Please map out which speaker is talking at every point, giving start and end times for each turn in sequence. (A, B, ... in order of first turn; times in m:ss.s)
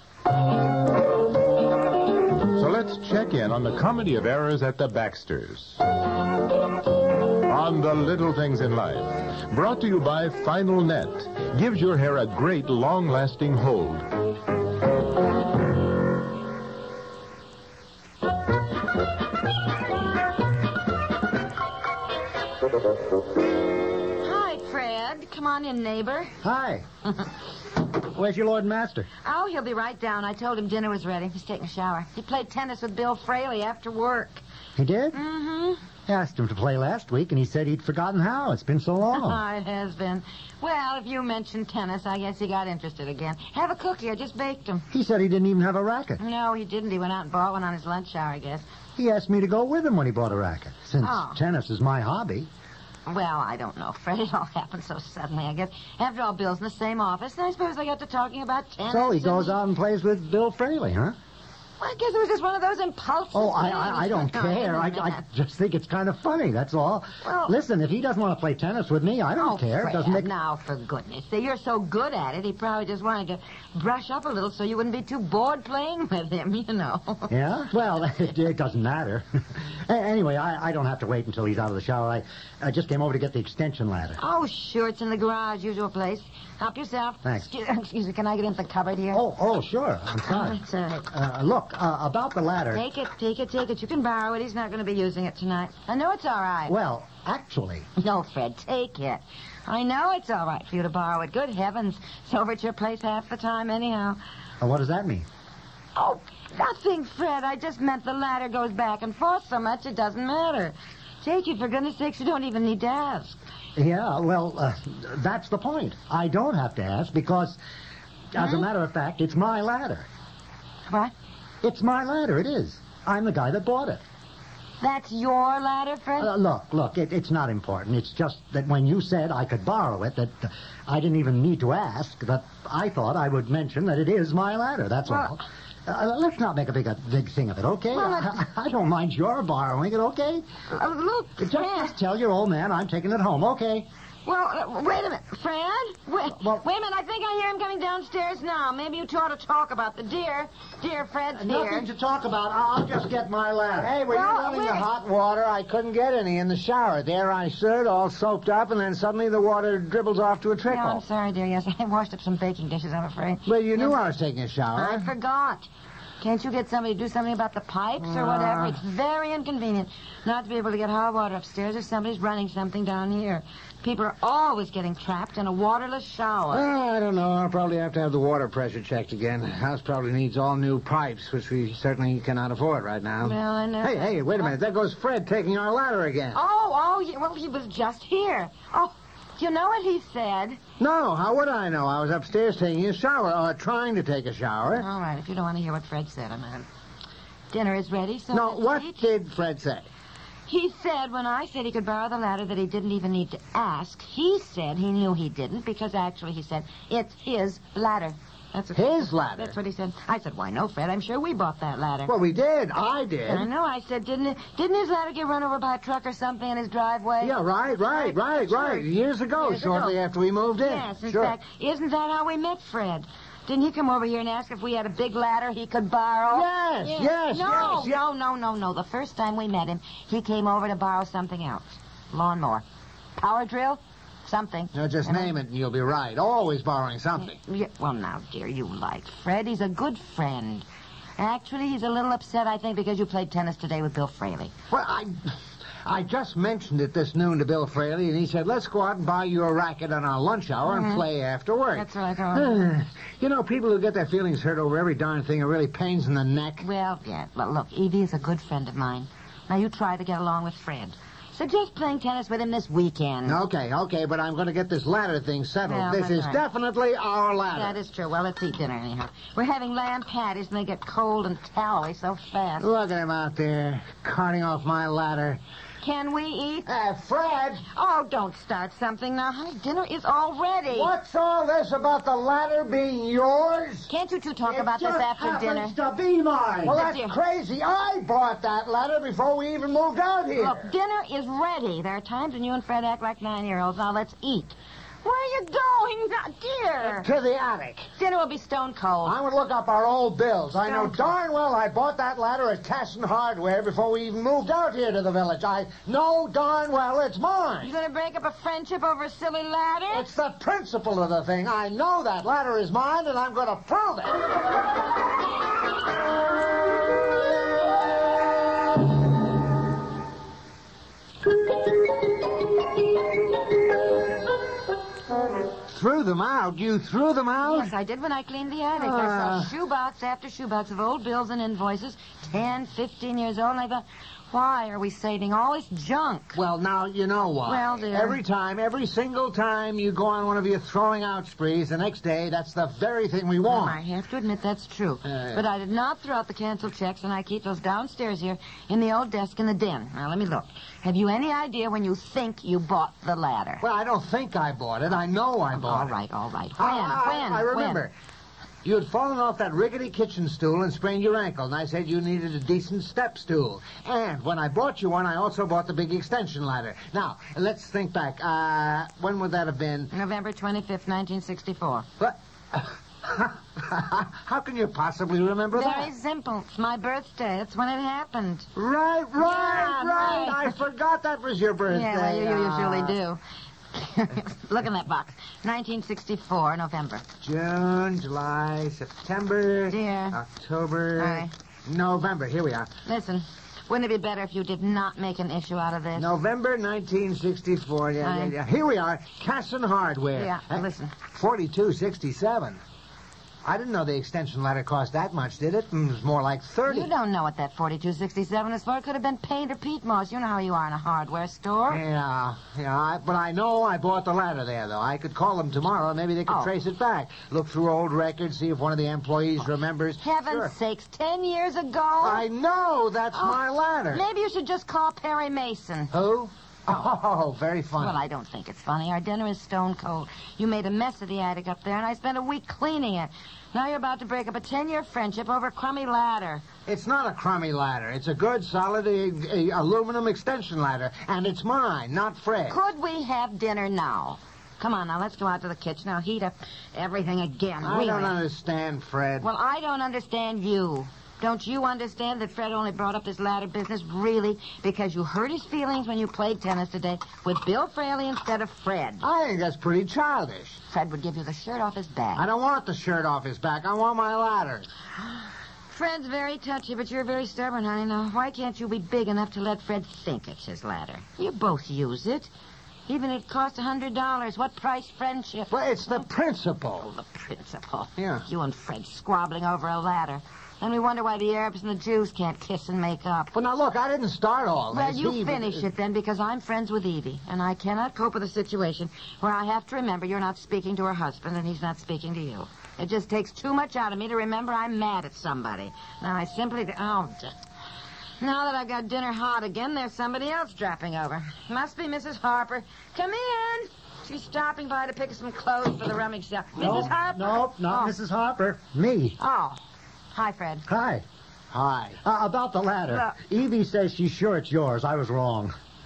0:02.5-0:05.8 A
0:07.5-0:14.1 A
0:24.2-0:26.4 B
0:26.4-0:26.8 C
0:28.0-0:29.1 C
0:29.2-0:34.4 B
0:34.8-0:35.2 C
0:35.1-0:35.8 B
0:36.1-0:39.4 C
0:39.1-0:44.9 B
0:44.9-0:46.2 C
0:46.2-0:48.6 B
0:49.0-0:52.5 C
0:51.0-0:51.4 B
0:53.0-0:59.6 B
0:58.8-1:01.2 C
1:01.8-1:05.2 B
1:03.3-1:10.3 C
1:07.2-1:07.5 B
1:09.4-1:17.3 B
1:17.3-1:24.2 C
1:24.2-1:29.2 B
1:27.2-1:27.5 C
1:29.1-1:32.8 C
1:30.3-1:31.0 B
1:32.7-1:36.7 B
1:36.7-1:37.8 C
1:38.0-1:44.2 B
1:44.6-1:45.2 C
1:45.9-1:53.4 B
1:53.8-1:57.6 C
1:58.3-2:00.1 C
1:58.4-1:58.6 B
2:00.9-2:01.1 B
2:01.6-2:04.0 C
2:04.8-2:06.3 B
2:06.2-2:20.4 C
2:17.9-2:18.4 B
2:20.7-2:21.9 B
2:21.4-2:23.9 C
2:24.2-2:31.9 B
2:26.3-2:26.6 C
2:31.3-2:34.0 C
2:33.8-2:41.0 D
2:34.1-2:34.9 B
2:40.7-2:44.0 B
2:43.4-2:45.1 D
2:44.8-2:45.7 B
2:46.2-2:56.7 B
2:48.0-2:48.8 D
2:56.5-3:06.4 D
3:03.2-3:04.5 B
3:06.3-3:10.6 B
3:10.8-3:14.8 D
3:14.7-3:16.7 B
3:17.5-3:19.0 B
3:18.3-3:19.9 D
3:20.5-3:32.1 B
3:28.7-3:29.6 D
3:32.1-3:33.5 D
3:33.3-3:37.4 B
3:37.2-3:41.4 D
3:37.9-3:39.9 B
3:40.6-3:52.6 B
3:46.3-3:48.0 D
3:53.2-3:55.3 B
3:54.7-3:57.4 D
3:57.3-4:00.6 B
4:01.2-4:04.5 B
4:04.7-4:16.6 D
4:10.6-4:11.0 B
4:11.7-4:12.6 B
4:16.6-4:23.4 B
4:23.2-4:27.8 D
4:25.6-4:26.4 B
4:27.5-4:32.7 B
4:32.6-4:35.4 D
4:35.8-4:36.7 B
4:36.6-4:37.6 D
4:37.7-4:40.9 B
4:40.7-4:43.9 D
4:43.9-4:45.8 B
4:44.5-4:46.8 C
4:46.6-4:50.7 D
4:46.7-4:47.1 B
4:50.3-4:57.1 B
4:56.8-4:57.9 D
4:58.0-4:59.2 B
4:59.0-5:07.7 D
5:00.6-5:01.1 B
5:07.6-5:10.1 B
5:09.9-5:14.2 D
5:25.6-5:27.7 D
5:27.4-5:36.4 B
5:28.8-5:29.5 D
5:36.3-5:43.8 D
5:37.4-5:38.2 B
5:43.5-5:53.6 B
5:45.1-5:45.4 D
5:53.6-5:55.9 D
5:55.5-5:57.8 B
5:56.6-5:57.9 D
5:58.6-6:09.9 D
6:09.9-6:11.8 B
6:12.0-6:15.9 D
6:15.5-6:18.5 B
6:18.5-6:23.0 D
6:19.2-6:20.5 B
6:21.7-6:23.2 B
6:23.7-6:27.0 B
6:27.2-6:32.7 D
6:29.7-6:30.2 B
6:31.0-6:31.3 B
6:32.8-6:36.2 B
6:35.9-6:42.6 D
6:38.0-6:38.3 B
6:40.1-6:41.0 B
6:43.4-6:46.9 D
6:46.7-6:51.8 B
6:51.7-7:00.5 D
7:00.0-7:02.2 B
7:02.0-7:04.0 D
7:03.1-7:03.4 B
7:03.9-7:05.9 B
7:05.9-7:08.0 D
7:07.8-7:16.4 B
7:16.6-7:22.6 D
7:22.5-7:28.2 B
7:27.6-7:29.3 D
7:29.2-7:39.0 B
7:39.0-7:40.6 D
7:40.7-7:42.3 B
7:42.2-7:44.7 D
7:45.7-7:52.3 B
7:52.9-7:56.0 B
7:55.5-7:56.9 D
7:56.8-8:03.3 B
7:58.0-7:58.3 D
8:03.3-8:05.7 D
8:04.7-8:17.3 B
8:18.2-8:27.9 B
8:26.6-8:29.2 C
8:29.2-8:29.6 B
8:30.1-8:30.6 B
8:30.7-8:31.0 C
8:31.5-8:32.0 D
8:32.0-8:35.5 C
8:32.9-8:33.2 B